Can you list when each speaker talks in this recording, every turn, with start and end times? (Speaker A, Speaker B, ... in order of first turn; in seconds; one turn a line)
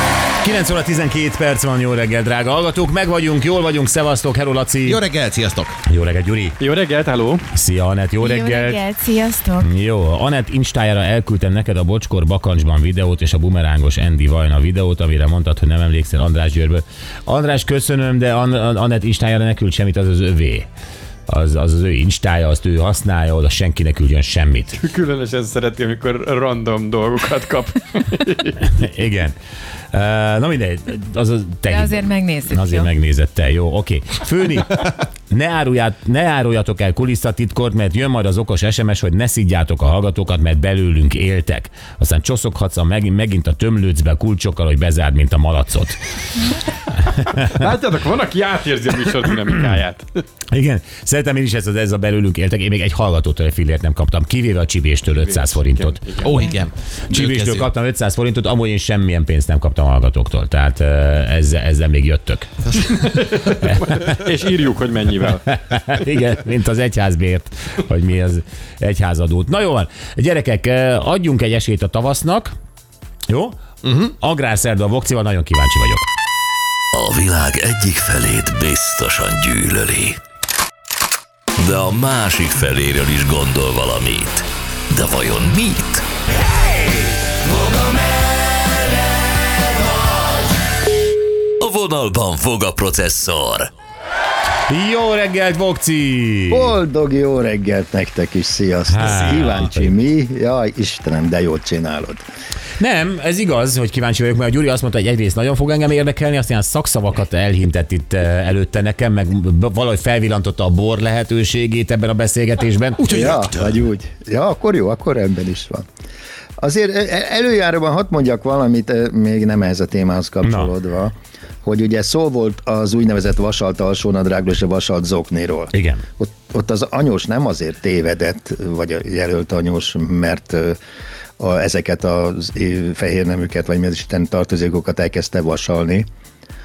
Speaker A: 0.4-5.0
Speaker B: 4.8-5.8
Speaker A: 5.8-6.5
Speaker C: 6.6-7.4
Speaker A: 7.5-8.8
Speaker D: 8.2-9.7
Speaker A: 9.6-20.7
Speaker A: 21.3-24.8
Speaker C: 24.9-28.5
Speaker A: 28.6-29.3
Speaker A: 29.9-46.2
Speaker D: 31.7-32.9
Speaker A: 46.9-47.7
Speaker C: 47.6-50.0
Speaker B: 49.0-49.7
Speaker A: 49.5-49.8
Speaker A: 50.5-56.3
Speaker C: 55.8-56.4
Speaker B: 56.2-57.7
Speaker A: 57.1-64.2
Speaker B: 62.8-64.2
Speaker C: 64.2-65.3
Speaker A: 65.4-72.5
Speaker A: 73.3-76.1
Speaker E: 76.9-80.2
Speaker E: 81.6-86.0
Speaker E: 91.6-93.7
Speaker A: 94.7-96.7
Speaker F: 96.5-102.2
Speaker A: 98.9-99.9
Speaker B: 99.0-99.5
Speaker A: 102.8-113.2
Speaker B: 113.0-113.8
Speaker F: 113.1-115.8
Speaker F: 116.6-130.8
Speaker A: 120.4-120.7
Speaker A: 125.7-126.0
Speaker F: 131.4-136.0